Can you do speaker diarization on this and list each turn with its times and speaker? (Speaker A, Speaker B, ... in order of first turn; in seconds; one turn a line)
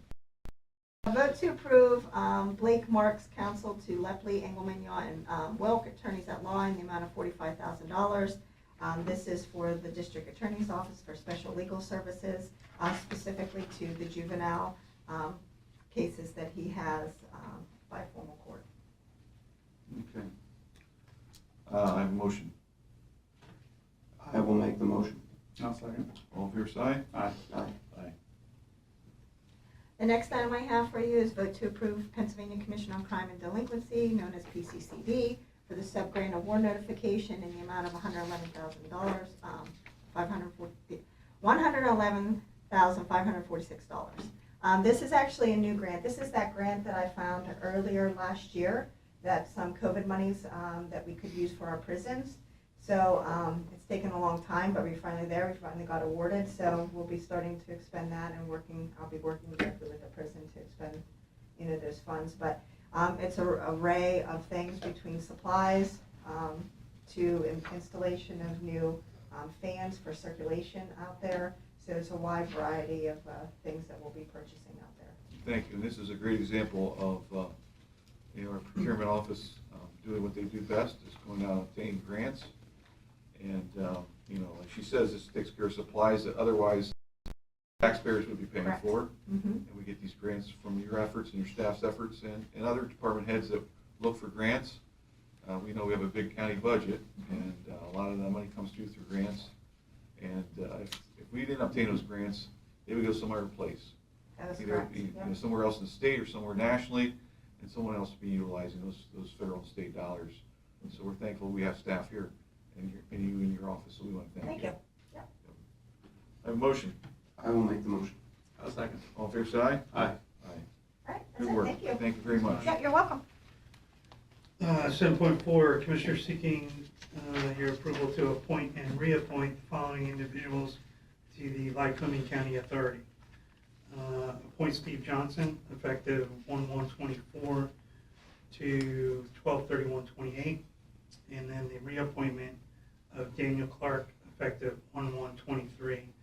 Speaker A: 1.0-15.4
Speaker A: 15.9-18.6
Speaker B: 19.9-20.3
Speaker C: 21.7-22.5
Speaker D: 24.2-25.2
Speaker B: 25.6-26.1
Speaker C: 26.3-27.1
Speaker B: 27.1-27.4
Speaker D: 27.5-27.8
Speaker A: 30.0-61.0
Speaker A: 61.6-75.2
Speaker C: 75.4-77.5
Speaker C: 78.3-82.5
Speaker C: 83.3-86.9
Speaker C: 87.8-89.1
Speaker A: 89.3-89.6
Speaker C: 89.6-94.8
Speaker C: 95.4-99.5
Speaker C: 100.2-103.9
Speaker A: 104.4-105.3
Speaker C: 104.6-114.7
Speaker A: 114.4-115.2
Speaker C: 116.4-117.0
Speaker D: 117.4-118.2
Speaker B: 118.6-119.0
Speaker C: 119.1-120.6
Speaker A: 121.0-123.2
Speaker C: 121.4-122.7
Speaker B: 122.3-122.7
Speaker E: 124.6-130.8
Speaker E: 131.3-133.0
Speaker E: 133.9-137.7
Speaker E: 138.5-140.6
Speaker E: 141.3-142.6
Speaker E: 143.1-146.1